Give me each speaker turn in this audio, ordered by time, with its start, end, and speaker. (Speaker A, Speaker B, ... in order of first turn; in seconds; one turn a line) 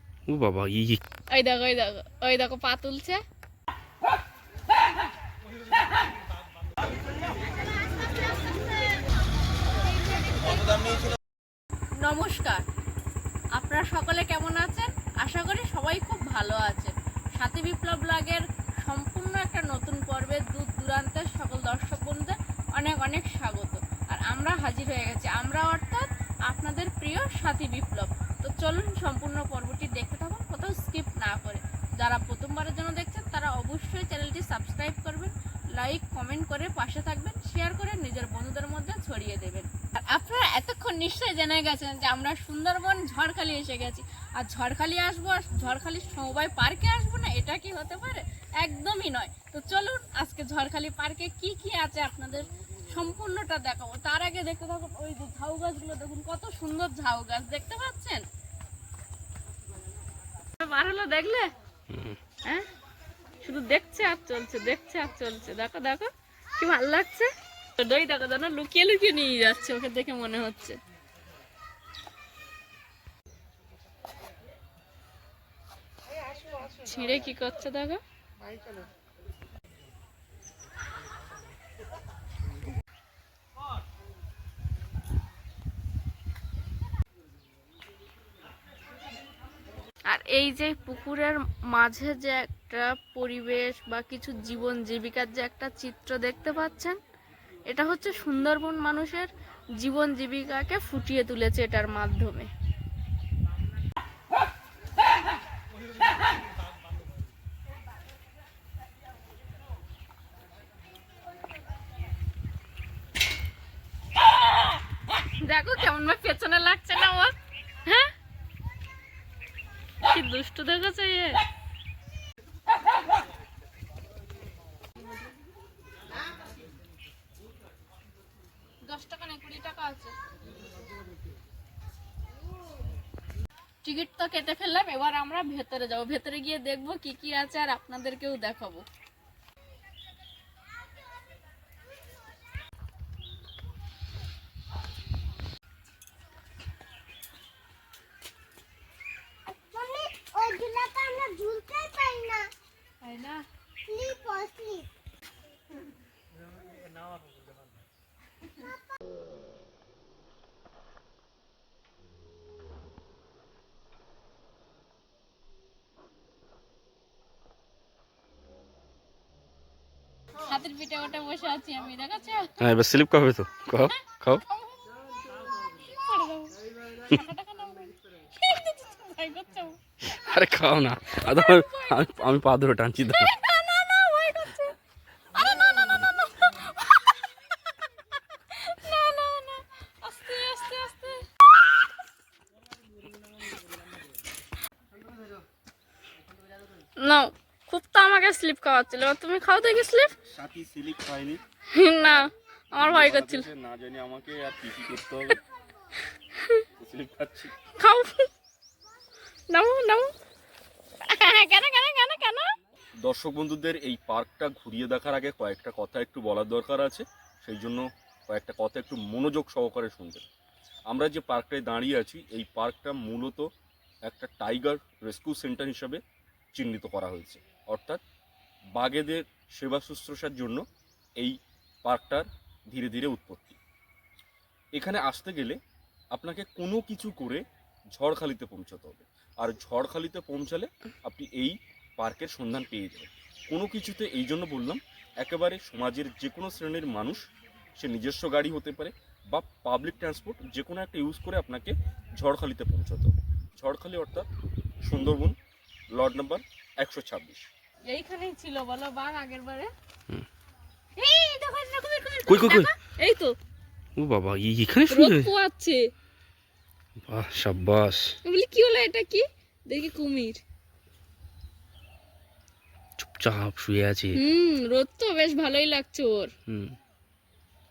Speaker A: 0.3-1.0
Speaker B: 1.3-3.2
Speaker B: 12.0-12.6
Speaker B: 13.6-58.2
Speaker B: 60.6-61.5
Speaker A: 61.9-62.2
Speaker B: 63.4-70.8
Speaker B: 76.7-78.0
Speaker B: 90.1-97.0
Speaker B: 97.7-102.5
Speaker B: 115.2-118.1
Speaker B: 120.0-121.4
Speaker B: 128.8-130.1
Speaker B: 133.8-138.8
Speaker C: 149.5-152.5
Speaker B: 153.0-153.4
Speaker C: 153.8-154.9
Speaker B: 170.4-172.5
Speaker A: 172.6-174.4
Speaker B: 173.9-174.8
Speaker B: 175.6-179.8
Speaker A: 180.0-183.3
Speaker B: 181.2-182.1
Speaker B: 183.1-184.8
Speaker B: 185.3-187.2
Speaker B: 188.5-191.2
Speaker B: 197.0-200.2
Speaker A: 200.3-201.4
Speaker B: 201.7-203.4
Speaker A: 202.0-202.2
Speaker A: 202.8-205.4
Speaker B: 206.4-206.6
Speaker A: 206.8-207.5
Speaker B: 207.8-208.3
Speaker B: 209.5-210.1
Speaker B: 211.1-212.4
Speaker A: 213.0-220.2
Speaker A: 220.9-223.4
Speaker A: 224.1-226.0
Speaker A: 226.5-228.0
Speaker A: 228.8-230.6
Speaker A: 231.2-233.6
Speaker A: 234.8-235.6
Speaker A: 236.1-237.4
Speaker A: 237.9-247.2
Speaker A: 247.8-254.3
Speaker A: 254.8-255.3
Speaker A: 255.9-257.4
Speaker B: 257.9-259.7
Speaker B: 261.0-263.3
Speaker A: 262.3-262.7
Speaker A: 264.0-265.3
Speaker B: 264.9-265.8
Speaker A: 267.0-268.1
Speaker B: 268.2-270.4
Speaker A: 273.0-274.2
Speaker B: 274.1-276.3
Speaker A: 276.5-276.7